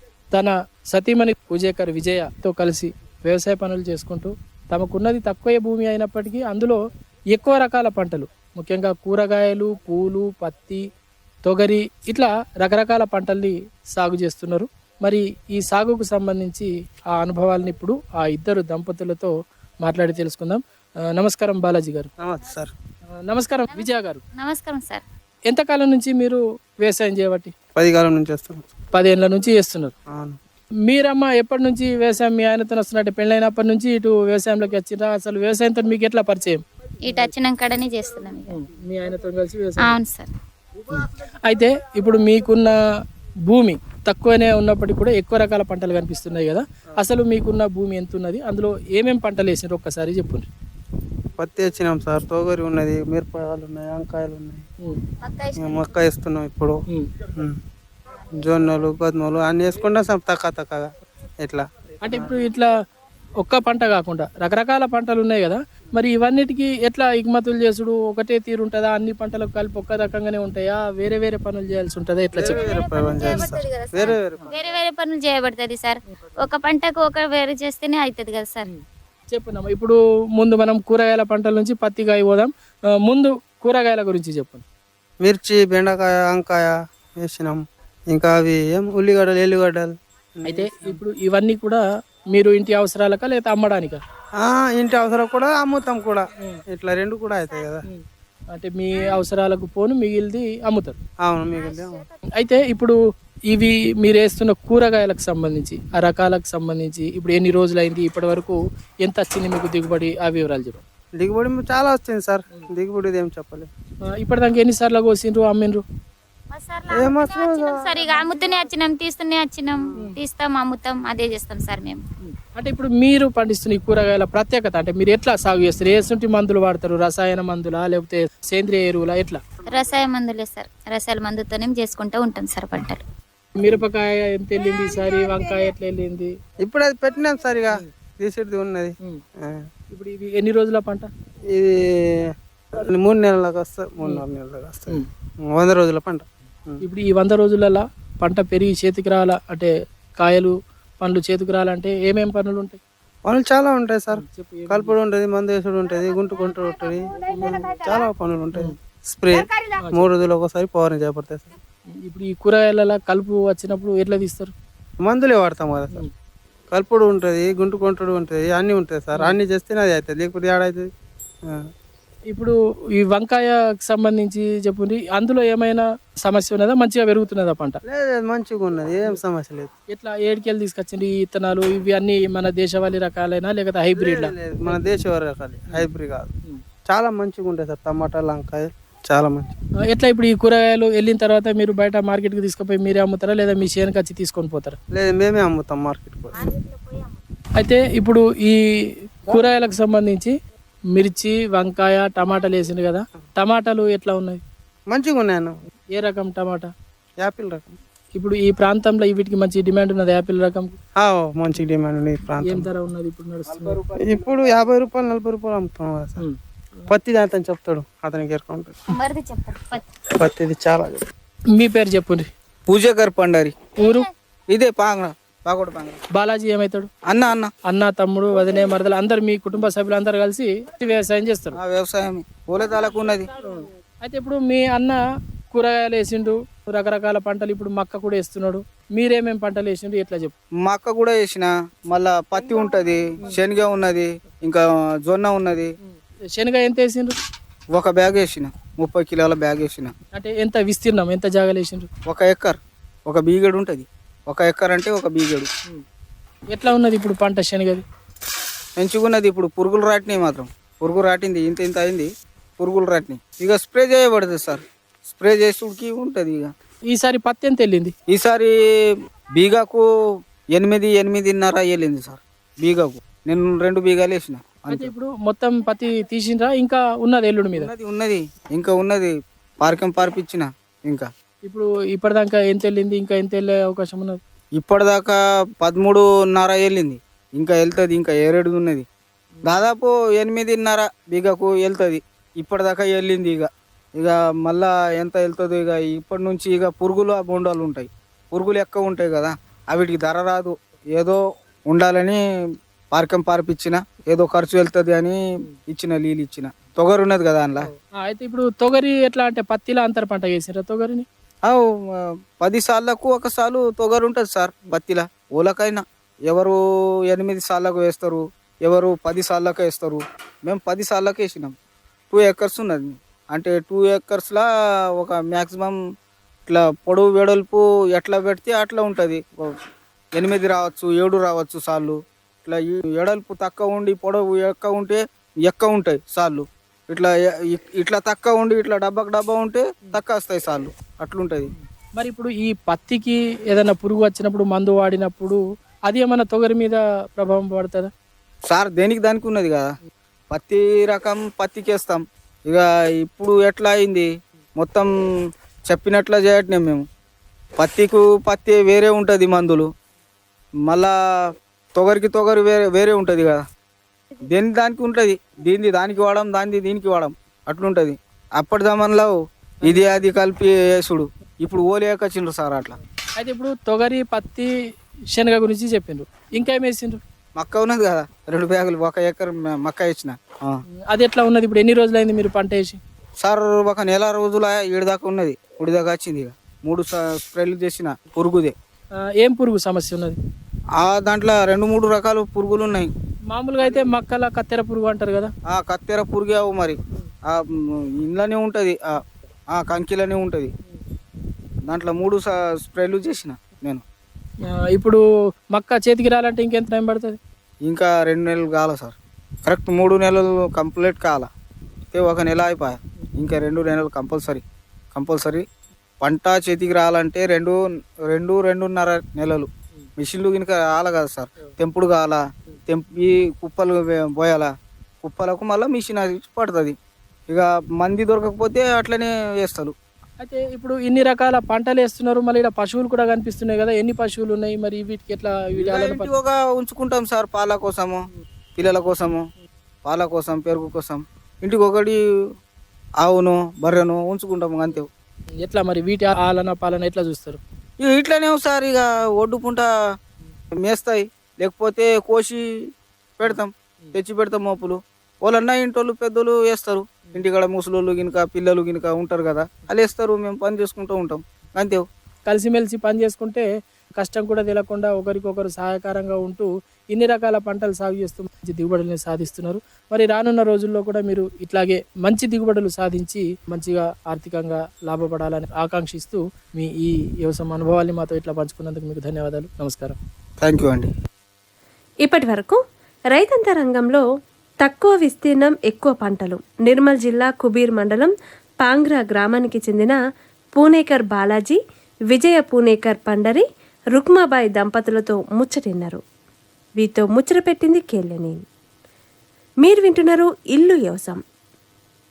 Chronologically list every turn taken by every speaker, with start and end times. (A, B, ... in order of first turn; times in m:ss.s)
0:00.3-0:06.8 A
0:07.3-0:10.8 A
0:11.4-0:19.3 A
0:19.8-0:20.6 A
0:21.2-0:22.1 A
0:22.2-0:22.7 B
0:23.3-0:24.2 A
0:23.7-0:25.0 C
0:25.5-0:27.5 A
0:27.8-0:28.7 B
0:28.9-0:29.9 A
0:30.1-0:30.4 B
0:30.9-0:36.6 A
0:37.0-0:38.6 C
0:38.5-0:40.0 A
0:39.8-0:40.3 C
0:40.9-0:42.8 A
0:43.5-0:50.5 A
0:51.4-0:54.6 B
0:55.2-0:55.9 C
0:55.6-0:56.8 B
0:58.3-1:00.9 B
1:01.4-1:02.3 B
1:02.0-1:02.7 A
1:03.4-1:12.7 A
1:12.4-1:14.5 B
1:12.4-1:18.7 C
1:18.7-1:22.5 A
1:23.0-1:24.6 A
1:25.2-1:31.0 B
1:30.5-1:34.0 A
1:34.4-1:37.8 B
1:37.9-1:41.0 A
1:41.2-1:42.1 B
1:42.4-1:43.0 A
1:43.5-1:50.8 A
1:51.2-1:53.7 B
1:54.1-1:55.8 A
1:56.5-2:02.0 C
1:56.9-1:58.4 B
2:02.2-2:09.4 A
2:09.7-2:13.0 C
2:13.6-2:16.3 A
2:16.6-2:19.7 B
2:19.9-2:21.1 A
2:21.5-2:26.8 B
2:26.8-2:32.8 A
2:33.3-2:41.5 B
2:34.1-2:35.0 A
2:39.8-2:40.1 A
2:42.0-2:44.5 A
2:45.0-2:46.0 B
2:46.7-2:50.9 B
2:52.3-2:57.8 A
2:57.9-2:59.7 B
2:59.9-3:04.8 A
3:04.0-3:06.3 B
3:06.9-3:09.5 B
3:09.9-3:14.8 A
3:14.9-3:16.6 B
3:17.6-3:18.6 A
3:19.2-3:20.3 A
3:20.9-3:24.4 A
3:24.9-3:25.6 B
3:25.9-3:26.7 A
3:27.2-3:27.8 B
3:28.2-3:30.8 A
3:31.0-3:32.7 B
3:32.4-3:33.9 A
3:33.9-3:36.2 B
3:36.9-3:38.8 B
3:38.9-3:39.8 C
3:40.1-3:41.1 B
3:41.6-3:42.3 A
3:42.7-3:43.7 D
3:43.8-3:44.0 A
3:44.5-3:46.0 D
3:46.1-3:46.9 A
3:47.1-3:47.5 D
3:47.7-3:51.6 A
3:51.6-3:53.3 D
3:53.4-3:55.0 A
3:55.5-4:00.4 A
4:00.6-4:05.7 D
4:05.8-4:07.2 A
4:07.7-4:09.9 D
4:10.1-4:11.9 A
4:12.1-4:15.5 D
4:16.5-4:17.8 A
4:18.8-4:26.5 D
4:26.9-4:27.9 A
4:28.1-4:29.9 D
4:30.6-4:34.9 D
4:34.7-4:37.7 A
4:37.5-4:41.1 D
4:41.5-4:44.2 A
4:44.6-4:48.9 D
4:49.4-4:49.7 A
4:49.5-5:02.2 D
5:02.9-5:07.7 D
5:07.6-5:11.1 A
5:11.5-5:21.5 D
5:22.1-5:25.8 D
5:26.5-5:29.6 D
5:30.2-5:41.5 D
5:41.6-5:47.9 A
5:48.5-5:49.7 D
5:50.3-5:54.9 D
5:55.7-5:56.9 D
5:57.6-5:59.7 D
6:00.7-6:00.9 D
6:01.8-6:03.4 D
6:04.2-6:12.8 D
6:13.2-6:14.5 A
6:15.1-6:17.0 A
6:17.4-6:20.6 D
6:20.9-6:22.8 A
6:23.2-6:28.6 D
6:29.2-6:30.2 A
6:30.8-6:32.9 D
6:33.3-6:35.3 A
6:33.6-6:33.9 D
6:35.5-6:39.0 D
6:39.5-6:40.5 D
6:41.7-6:43.8 D
6:44.5-6:47.2 A
6:47.7-6:49.0 D
6:49.5-6:51.3 D
6:51.9-6:54.4 D
6:54.9-6:55.4 D
6:56.0-7:04.5 D
7:05.0-7:06.8 D
7:07.3-7:09.7 D
7:10.2-7:16.2 A
7:15.6-7:18.0 D
7:18.6-7:19.3 D
7:19.9-7:22.0 D
7:23.0-7:24.9 D
7:25.4-7:27.4 A
7:27.8-7:29.7 D
7:30.6-7:41.9 D
7:42.3-7:43.5 A
7:44.0-8:00.0 A
8:00.4-8:00.9 D
8:02.0-8:02.6 E
8:03.1-8:04.0 E
8:04.6-8:10.0 E
8:10.6-8:11.6 E
8:12.1-8:16.0 E
8:16.8-8:18.4 E
8:19.6-8:21.2 E